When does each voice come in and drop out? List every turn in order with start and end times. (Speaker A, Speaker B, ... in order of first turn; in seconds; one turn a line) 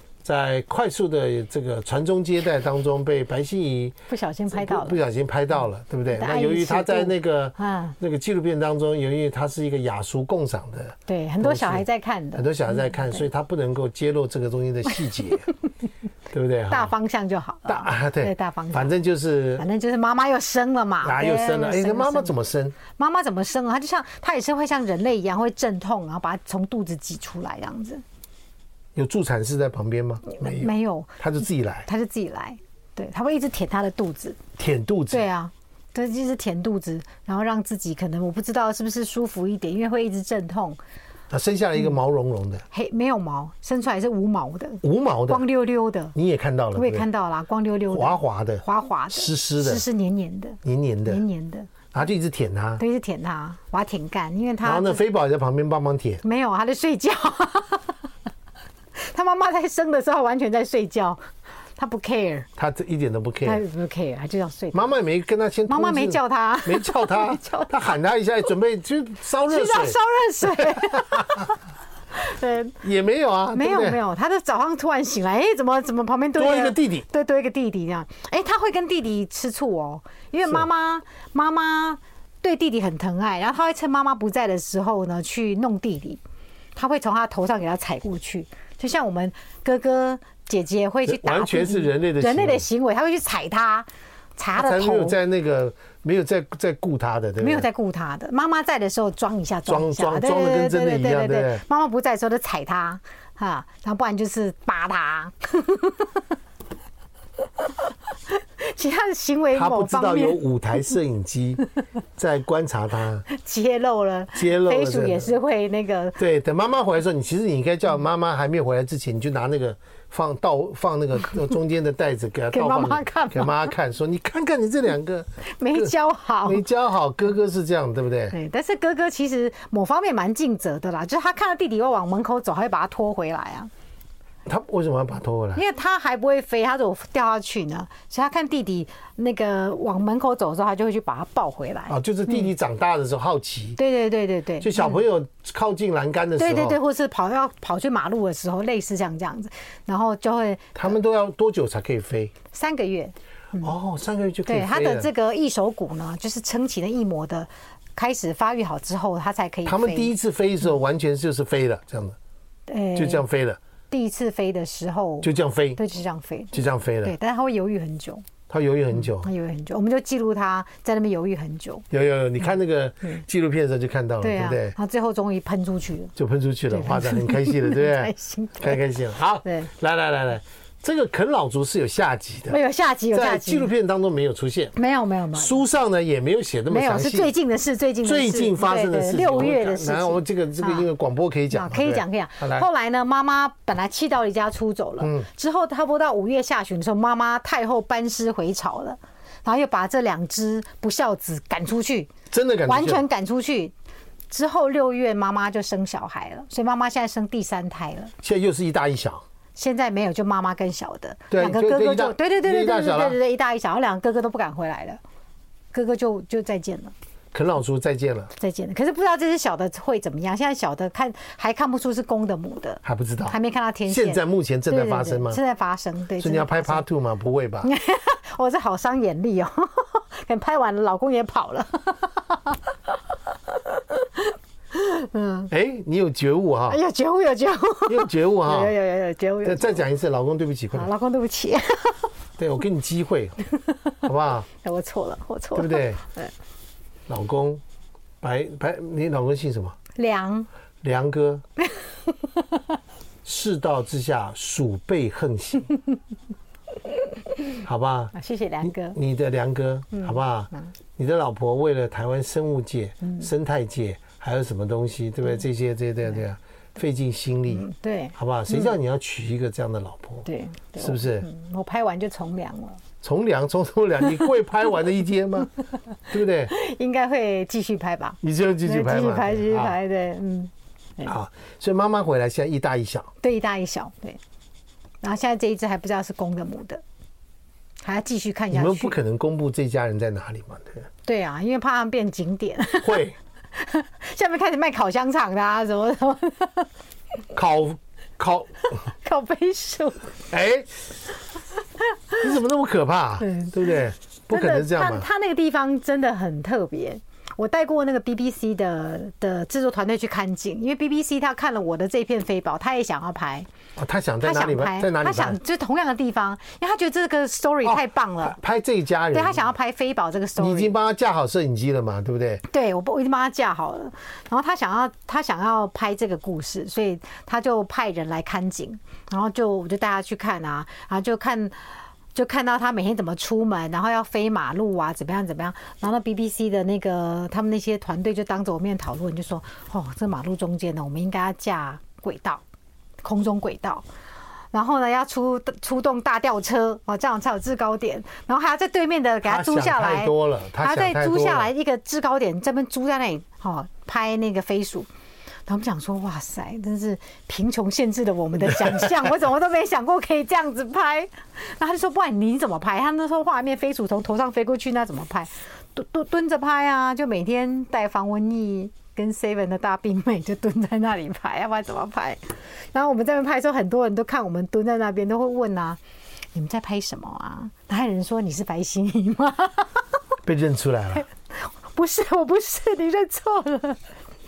Speaker A: 0.2-4.0
Speaker B: 4.1-5.0
Speaker A: 4.5-15.5
Speaker B: 6.1-8.0
Speaker B: 11.1-13.2
Speaker A: 16.3-16.9
Speaker B: 16.7-19.0
Speaker A: 17.6-19.6
Speaker B: 19.6-22.4
Speaker A: 21.0-22.8
Speaker B: 22.9-28.0
Speaker A: 29.0-31.9
Speaker B: 30.3-31.2
Speaker B: 31.9-34.4
Speaker A: 34.6-35.2
Speaker B: 35.1-40.8
Speaker A: 41.3-42.6
Speaker B: 42.7-46.1
Speaker A: 44.8-45.5
Speaker A: 46.1-47.1
Speaker B: 46.8-51.7
Speaker A: 47.9-49.8
Speaker A: 50.6-51.2
Speaker A: 51.9-52.8
Speaker B: 52.8-55.0
Speaker A: 54.6-56.2
Speaker B: 56.2-58.1
Speaker B: 59.0-61.2
Speaker B: 61.8-62.5
Speaker A: 62.6-63.6
Speaker B: 63.4-65.0
Speaker A: 64.7-71.5
Speaker B: 65.7-68.0
Speaker B: 69.5-71.5
Speaker B: 72.1-72.8
Speaker A: 72.8-74.0
Speaker B: 73.5-86.2
Speaker A: 76.4-77.1
Speaker B: 86.8-95.2
Speaker A: 91.0-92.7
Speaker A: 94.5-97.7
Speaker B: 97.4-106.3
Speaker A: 99.7-101.6
Speaker B: 107.6-110.4
Speaker A: 109.5-113.3
Speaker B: 113.3-116.2
Speaker A: 114.3-115.3
Speaker A: 116.2-125.9
Speaker B: 122.5-123.7
Speaker B: 125.6-126.7
Speaker A: 126.5-128.3
Speaker B: 128.3-133.7
Speaker A: 134.5-135.6
Speaker B: 135.6-142.5
Speaker A: 141.9-143.8
Speaker B: 143.8-145.0
Speaker A: 144.6-146.8
Speaker B: 146.4-150.9
Speaker A: 150.8-152.3
Speaker B: 152.5-153.7
Speaker A: 153.6-155.1
Speaker B: 154.5-160.1
Speaker A: 159.7-162.2
Speaker B: 162.7-163.2
Speaker A: 162.9-163.6
Speaker B: 163.9-168.3
Speaker A: 165.2-165.8
Speaker A: 166.5-167.1
Speaker A: 168.5-169.3
Speaker B: 168.9-171.9
Speaker A: 171.9-174.8
Speaker B: 174.2-176.1
Speaker A: 176.2-182.6
Speaker B: 176.7-178.8
Speaker B: 179.4-179.7
Speaker B: 182.5-183.7
Speaker A: 183.1-184.8
Speaker B: 184.8-185.6
Speaker A: 185.3-187.3
Speaker B: 186.7-190.9
Speaker A: 188.0-192.7
Speaker B: 191.5-202.1
Speaker A: 195.0-195.3
Speaker A: 202.3-203.0
Speaker B: 202.7-203.7
Speaker B: 204.3-208.1
Speaker A: 208.2-209.2
Speaker B: 209.6-215.0
Speaker A: 211.3-213.2
Speaker B: 215.7-216.9
Speaker A: 217.3-218.3
Speaker B: 218.4-226.8
Speaker A: 222.8-225.4
Speaker A: 226.2-227.7
Speaker B: 227.6-235.5
Speaker A: 235.5-236.8
Speaker B: 236.7-239.9
Speaker A: 237.9-238.8
Speaker A: 239.4-240.9
Speaker B: 240.7-242.1
Speaker A: 242.4-243.4
Speaker A: 244.0-244.5
Speaker B: 244.6-246.3
Speaker A: 245.6-246.0
Speaker A: 247.1-247.6
Speaker A: 248.2-249.8
Speaker B: 249.9-250.5
Speaker A: 250.8-251.4
Speaker B: 251.6-252.6
Speaker A: 253.2-255.7
Speaker A: 257.6-270.3
Speaker B: 258.1-259.0
Speaker B: 259.9-260.7
Speaker B: 267.5-268.8
Speaker B: 270.3-272.8
Speaker A: 270.8-271.3
Speaker A: 273.0-275.5
Speaker A: 276.1-276.5
Speaker B: 276.5-281.1
Speaker A: 278.2-279.8
Speaker A: 281.0-283.1
Speaker B: 283.2-284.2
Speaker B: 285.0-286.8
Speaker B: 287.8-289.0
Speaker A: 288.5-290.9
Speaker B: 291.1-296.7
Speaker A: 292.8-293.1
Speaker A: 297.3-298.9
Speaker B: 298.9-300.1
Speaker A: 300.3-300.7
Speaker B: 301.9-302.3
Speaker A: 302.2-305.1
Speaker B: 303.2-313.5
Speaker A: 313.8-315.4
Speaker B: 314.2-318.4
Speaker A: 317.6-319.5
Speaker B: 319.1-320.8
Speaker A: 320.4-322.4
Speaker B: 322.5-342.4
Speaker B: 343.0-343.9
Speaker B: 344.5-354.9
Speaker A: 349.2-351.5
Speaker B: 355.5-375.8
Speaker B: 376.3-379.9
Speaker A: 380.2-381.1
Speaker B: 381.3-383.9